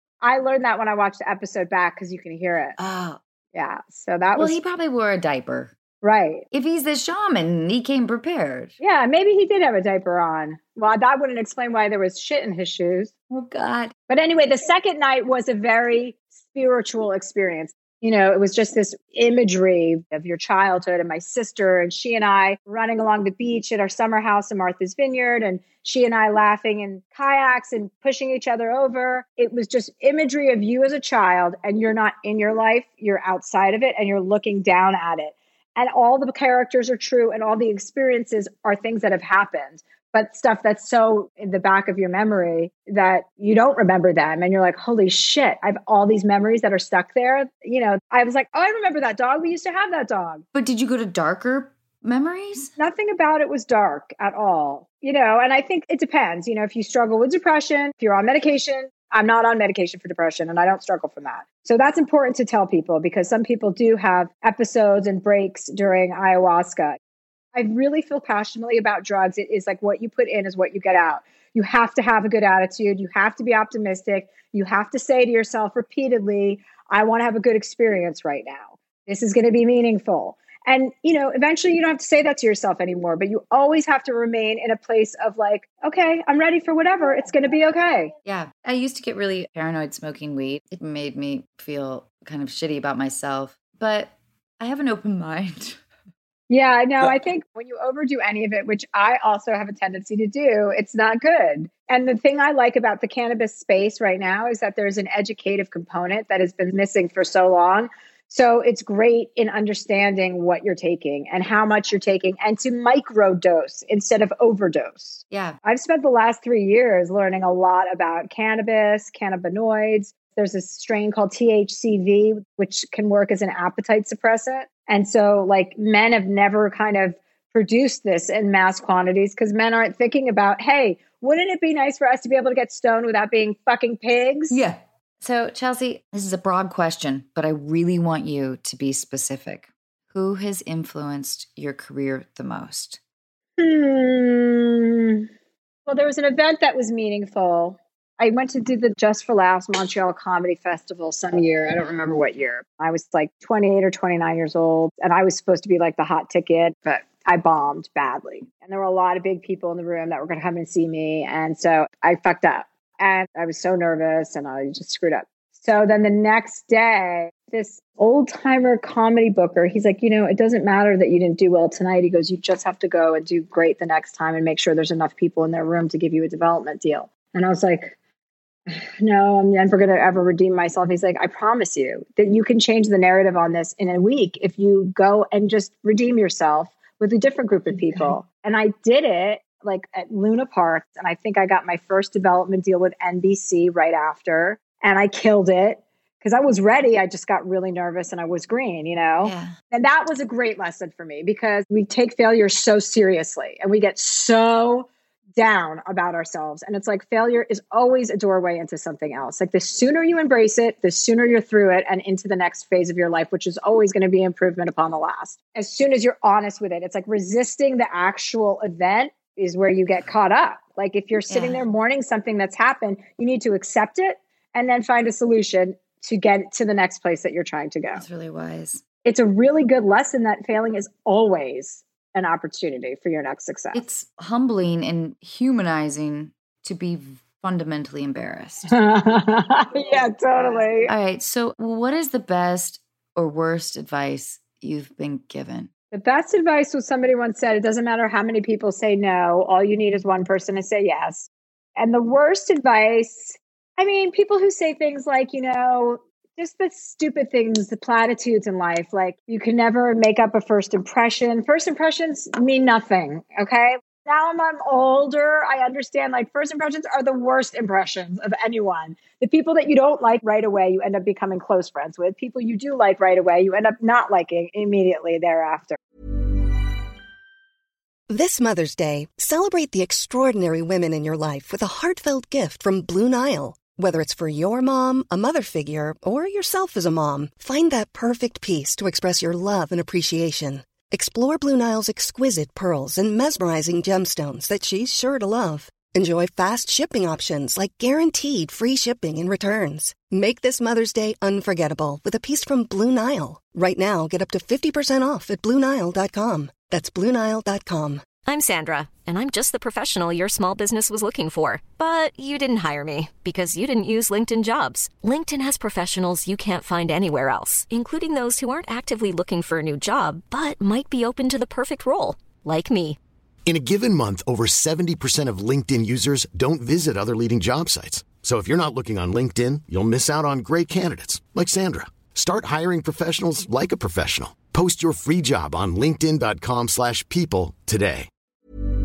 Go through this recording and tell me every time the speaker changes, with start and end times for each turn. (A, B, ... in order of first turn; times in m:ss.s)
0:00.2-0:02.8 A
0:02.8-0:03.2 B
0:03.5-0:04.6 A
0:04.3-0:05.7 B
0:06.0-0:06.4 A
0:06.5-0:08.7 B
0:08.8-0:13.1 A
0:13.3-0:13.9 B
0:14.1-0:50.4 A
0:50.5-0:52.7 B
0:52.8-1:07.0 A
1:07.5-1:28.1 A
1:28.2-1:35.8 B
1:36.5-2:14.6 A
1:55.3-1:55.6 B
2:14.5-2:23.0 B
2:23.6-2:25.3 A
2:25.9-2:57.9 A
2:58.7-3:48.0 A
3:19.2-3:19.6 B
3:41.3-3:41.6 B
3:47.9-3:48.8 B
3:49.0-3:53.8 A
3:53.7-3:58.7 B
3:58.7-4:00.9 A
4:00.9-4:05.7 B
4:05.9-4:35.8 A
4:38.1-5:08.0 C
5:08.2-5:23.0 D
5:23.5-5:38.1 E